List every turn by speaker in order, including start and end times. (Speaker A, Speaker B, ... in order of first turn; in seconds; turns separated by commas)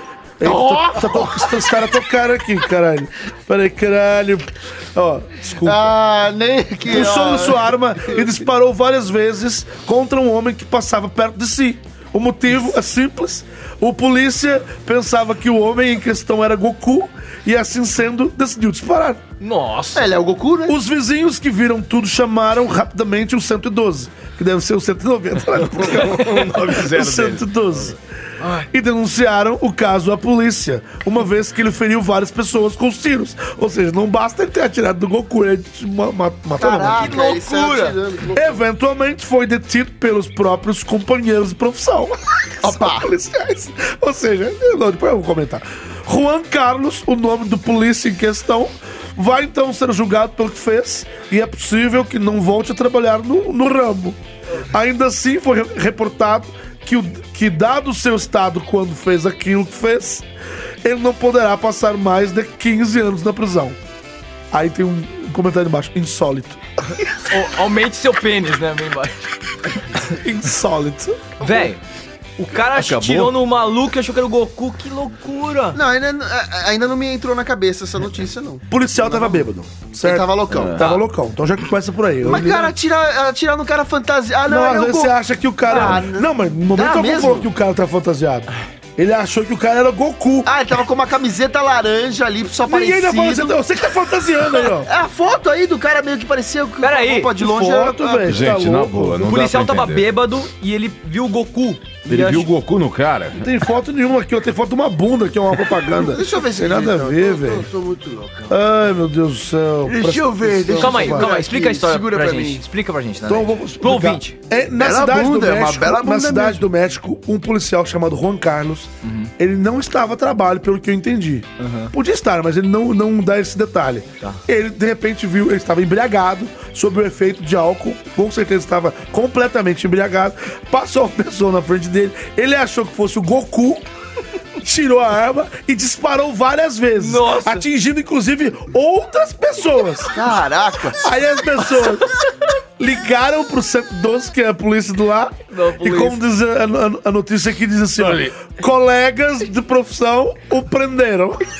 Speaker A: 0.4-6.0, Speaker B: 0.5-1.7, Speaker B: 5.6-7.6, Speaker A: 6.9-19.2, Speaker C: 19.4-20.1, Speaker B: 19.9-20.8, Speaker A: 20.7-28.0, Speaker D: 25.6-27.4, Speaker A: 28.7-37.2, Speaker B: 36.6-38.6, Speaker C: 36.9-38.0, Speaker A: 38.3-60.3, Speaker B: 42.6-43.1, Speaker A: 60.8-63.8, Speaker A: 64.5-66.6, Speaker C: 67.3-69.2, Speaker A: 70.1-71.2, Speaker C: 71.4-71.8, Speaker C: 72.4-75.8, Speaker D: 72.7-73.4, Speaker B: 75.7-79.4, Speaker A: 78.7-82.8, Speaker B: 80.0-81.0, Speaker D: 80.5-80.8, Speaker B: 82.2-85.1, Speaker A: 84.5-90.5, Speaker B: 85.7-87.5, Speaker B: 90.5-93.5, Speaker A: 92.7-94.9, Speaker B: 94.8-98.5, Speaker C: 96.8-97.4, Speaker A: 97.4-99.4, Speaker D: 98.3-100.1, Speaker C: 99.3-102.5, Speaker D: 102.1-103.5, Speaker A: 103.4-107.7, Speaker B: 105.9-108.6, Speaker A: 108.5-111.3, Speaker B: 109.9-112.6, Speaker C: 110.7-114.4, Speaker A: 113.3-133.9, Speaker B: 114.8-116.6, Speaker C: 119.0-119.3, Speaker C: 121.6-121.9, Speaker A: 134.6-140.2, Speaker C: 137.0-137.7, Speaker B: 140.1-141.0, Speaker A: 141.0-142.1, Speaker A: 142.8-151.4, Speaker C: 145.5-146.2, Speaker D: 148.0-148.3